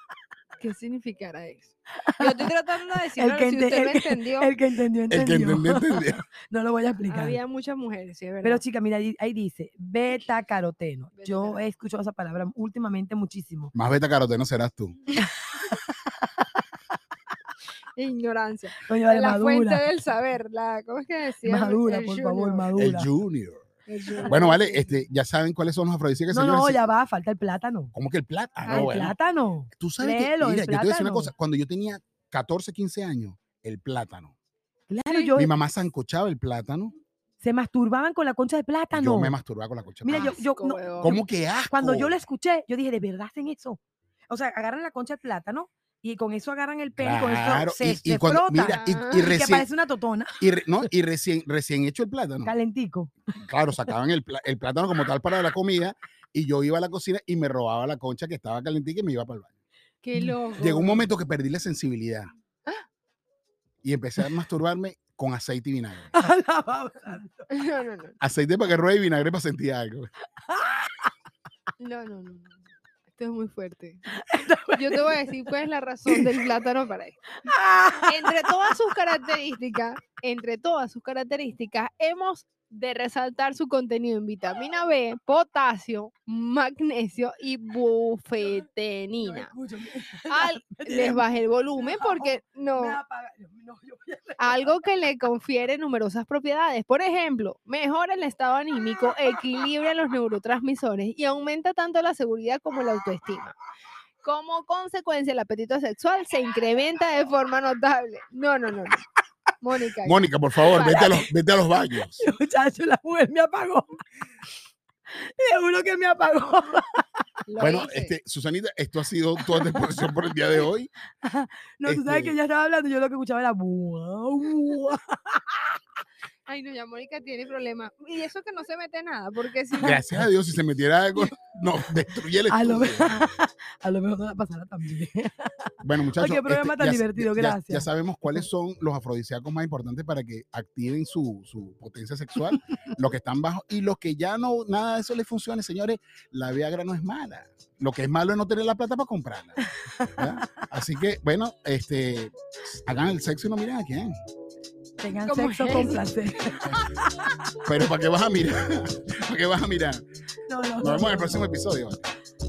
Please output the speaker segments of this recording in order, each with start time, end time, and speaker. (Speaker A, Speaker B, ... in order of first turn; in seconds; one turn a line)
Speaker A: 0.6-4.5
Speaker B: 3.1-7.4
Speaker C: 5.1-6.2
Speaker A: 7.0-8.6
Speaker B: 8.4-13.7
Speaker A: 11.1-11.6
Speaker C: 13.7-15.0
Speaker B: 15.2-16.0
Speaker A: 17.9-22.7
Speaker B: 18.9-19.8
Speaker B: 21.4-23.1
Speaker C: 22.8-23.7
Speaker A: 23.9-25.0
Speaker C: 24.3-26.8
Speaker B: 26.3-27.9
Speaker C: 27.9-29.1
Speaker A: 28.6-29.1
Speaker B: 28.7-31.3
Speaker C: 29.7-34.3
Speaker B: 34.9-35.5
Speaker A: 35.1-35.4
Speaker C: 35.4-36.9
Speaker B: 37.4-39.4
Speaker C: 38.9-40.4
Speaker B: 40.0-50.9
Speaker A: 40.1-41.2
Speaker C: 41.0-42.2
Speaker C: 47.0-49.6
Speaker A: 48.7-49.4
Speaker C: 50.4-52.5
Speaker B: 52.4-53.1
Speaker C: 53.4-59.5
Speaker A: 60.0-61.1
Speaker C: 60.6-62.3
Speaker C: 63.8-66.1
Speaker B: 66.1-67.5
Speaker A: 67.5-68.1
Speaker C: 68.2-70.1
Speaker B: 70.5-70.9
Speaker A: 71.8-74.1
Speaker B: 74.1-75.5
Speaker A: 74.7-77.4
Speaker B: 76.1-76.3
Speaker B: 77.5-78.5
Speaker A: 78.0-89.5
Speaker B: 89.2-94.9
Speaker A: 90.3-93.0
Speaker A: 94.4-103.5
Speaker B: 98.8-99.6
Speaker A: 104.2-109.0
Speaker A: 109.6-110.2
Speaker C: 110.0-112.3
Speaker B: 110.6-111.3
Speaker B: 111.9-114.0
Speaker B: 115.1-117.0
Speaker A: 117.5-118.1
Speaker C: 117.6-120.9
Speaker B: 119.5-120.0
Speaker B: 121.2-125.8
Speaker C: 121.8-122.4
Speaker A: 126.5-130.1
Speaker C: 129.8-133.2
Speaker B: 132.5-138.4
Speaker C: 135.8-149.6
Speaker B: 150.0-150.3
Speaker C: 150.2-154.1
Speaker B: 155.0-157.5
Speaker A: 155.2-156.1
Speaker C: 157.6-160.0
Speaker B: 160.5-161.4
Speaker C: 160.8-162.1